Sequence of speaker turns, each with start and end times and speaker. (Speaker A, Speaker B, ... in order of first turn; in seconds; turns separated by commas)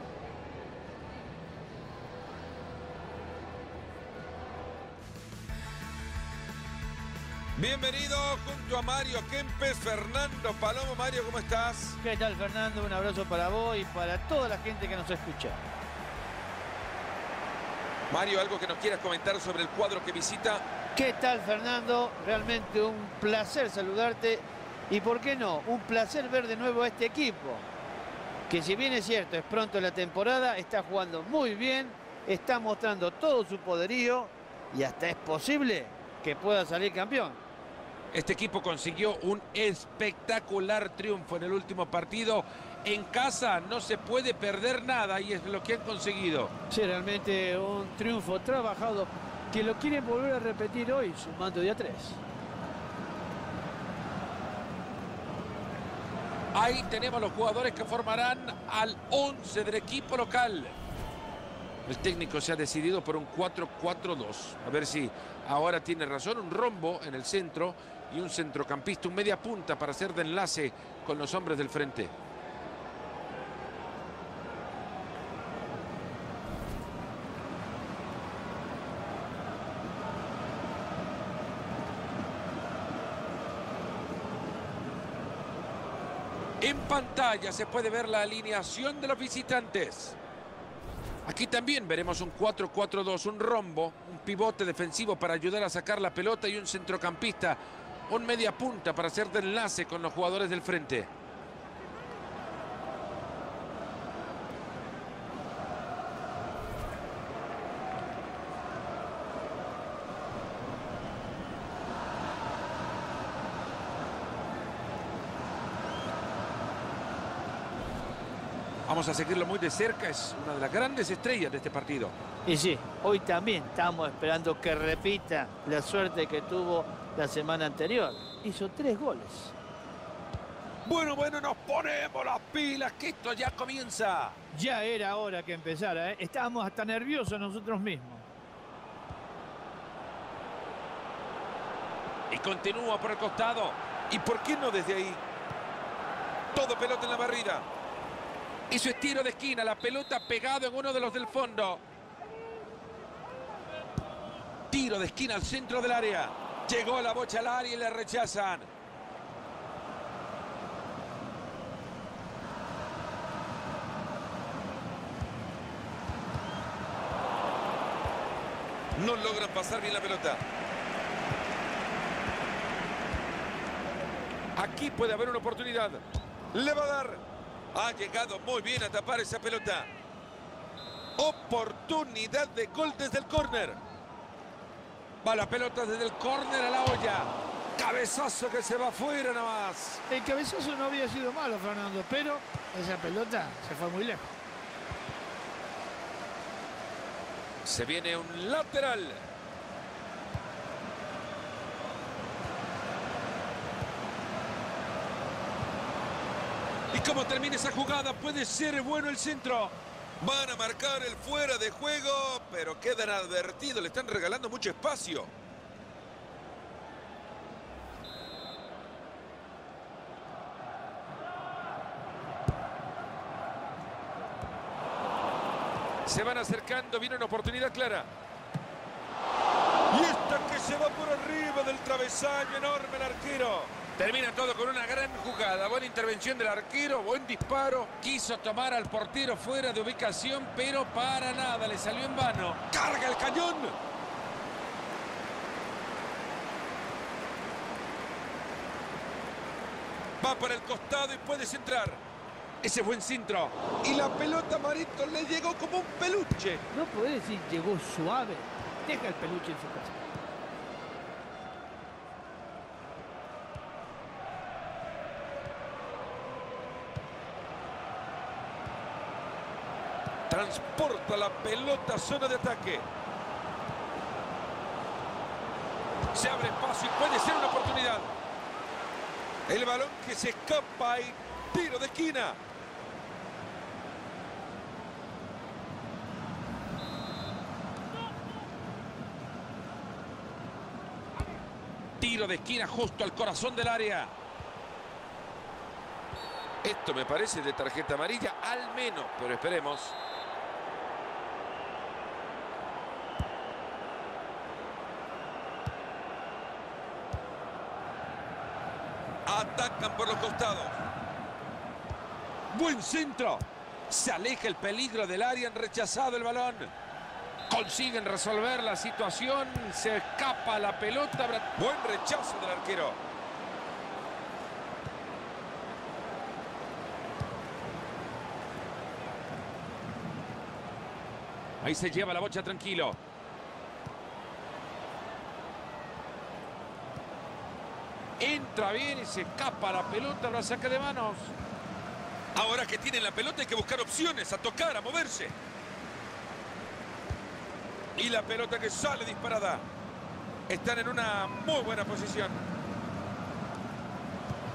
Speaker A: 7.6-12.0, Speaker B: 12.0-15.6, Speaker A: 18.1-20.6, Speaker B: 20.9-27.7, Speaker B: 28.5-37.4, Speaker A: 38.1-46.5, Speaker B: 46.7-52.2, Speaker A: 56.5-60.8, Speaker A: 61.9-72.1, Speaker A: 86.6-90.2, Speaker A: 91.3-101.1, Speaker A: 118.9-122.2, Speaker B: 122.5-129.6, Speaker A: 130.8-134.4, Speaker B: 134.5-138.3, Speaker A: 142.3-145.2, Speaker A: 146.5-147.7, Speaker A: 148.7-151.8, Speaker A: 154.7-158.7, Speaker A: 168.9-170.4, Speaker A: 174.6-176.0, Speaker A: 176.5-177.2, Speaker A: 177.7-179.9, Speaker A: 181.2-183.8, Speaker A: 185.2-190.0, Speaker B: 190.1-194.4, Speaker A: 197.7-199.2, Speaker A: 206.9-215.3, Speaker A: 226.1-228.1, Speaker A: 229.9-243.7, Speaker A: 250.2-252.0, Speaker A: 252.6-256.6, Speaker B: 256.7-260.0, Speaker A: 270.3-272.9, Speaker A: 276.1-278.1, Speaker A: 279.5-282.4, Speaker A: 292.0-294.1, Speaker A: 296.6-300.0, Speaker A: 309.3-310.7, Speaker A: 312.5-316.7, Speaker A: 317.5-323.0, Speaker A: 331.6-333.0, Speaker A: 338.2-341.3, Speaker A: 342.4-345.4, Speaker A: 348.0-349.6, Speaker A: 350.5-352.4